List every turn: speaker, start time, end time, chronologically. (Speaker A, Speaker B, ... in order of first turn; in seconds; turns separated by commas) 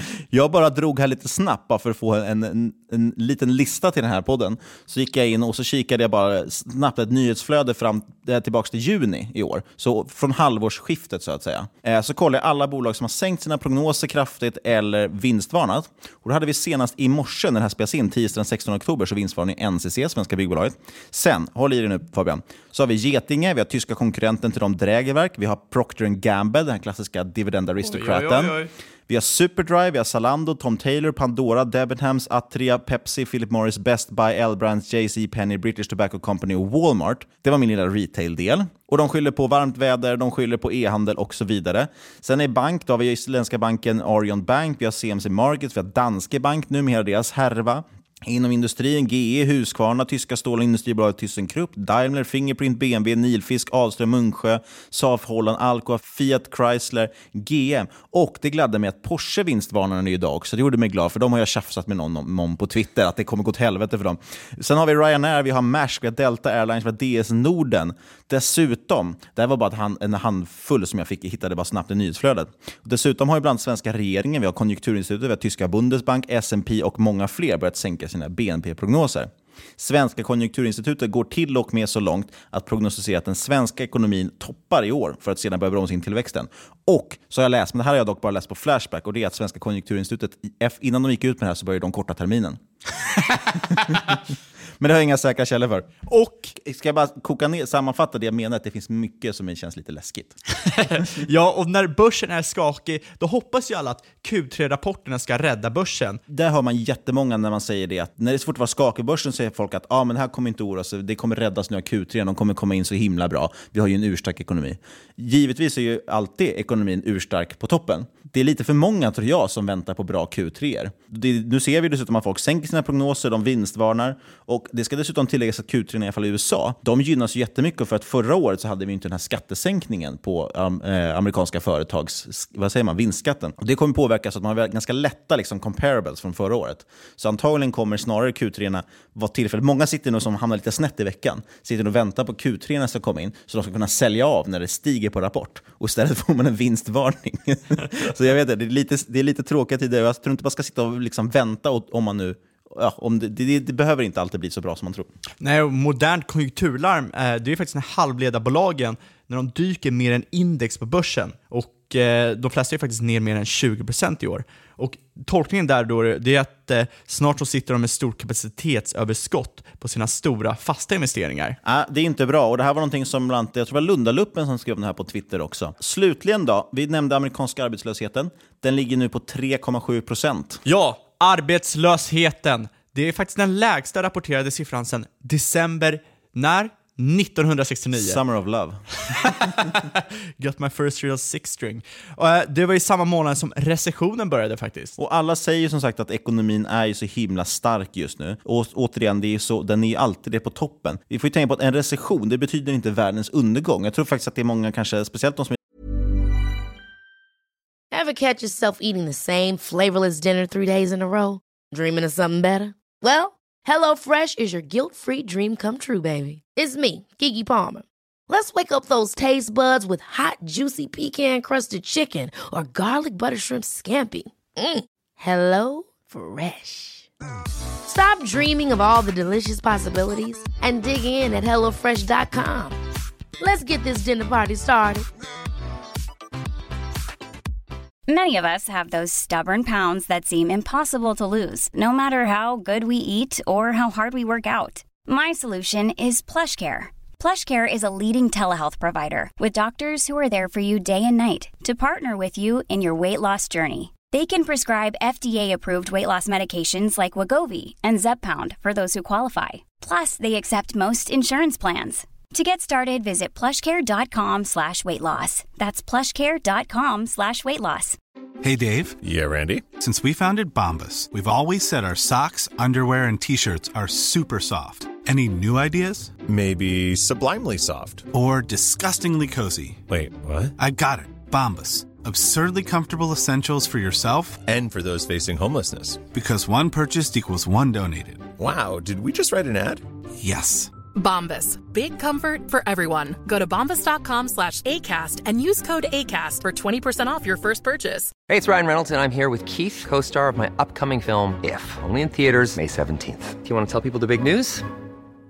Speaker A: 0.3-92.6, Speaker B: 27.8-28.7, Speaker A: 93.7-94.2, Speaker A: 94.8-96.0, Speaker B: 96.1-96.5, Speaker A: 96.6-100.4, Speaker B: 100.7-106.2, Speaker A: 106.3-155.1, Speaker B: 155.4-171.6, Speaker A: 171.7-180.6, Speaker B: 180.7-188.2, Speaker A: 187.9-188.8, Speaker B: 189.1-194.9, Speaker A: 195.0-205.6, Speaker C: 207.9-227.1, Speaker C: 227.9-232.8, Speaker C: 233.4-235.1, Speaker D: 238.1-268.0, Speaker E: 268.4-269.0, Speaker F: 269.0-269.7, Speaker E: 269.7-276.2, Speaker F: 276.2-278.1, Speaker E: 278.1-279.9, Speaker F: 279.9-280.5, Speaker E: 280.6-284.4, Speaker F: 284.5-286.1, Speaker E: 286.1-288.4, Speaker F: 288.4-289.8, Speaker E: 290.2-290.7, Speaker G: 290.9-298.1, Speaker H: 298.3-304.7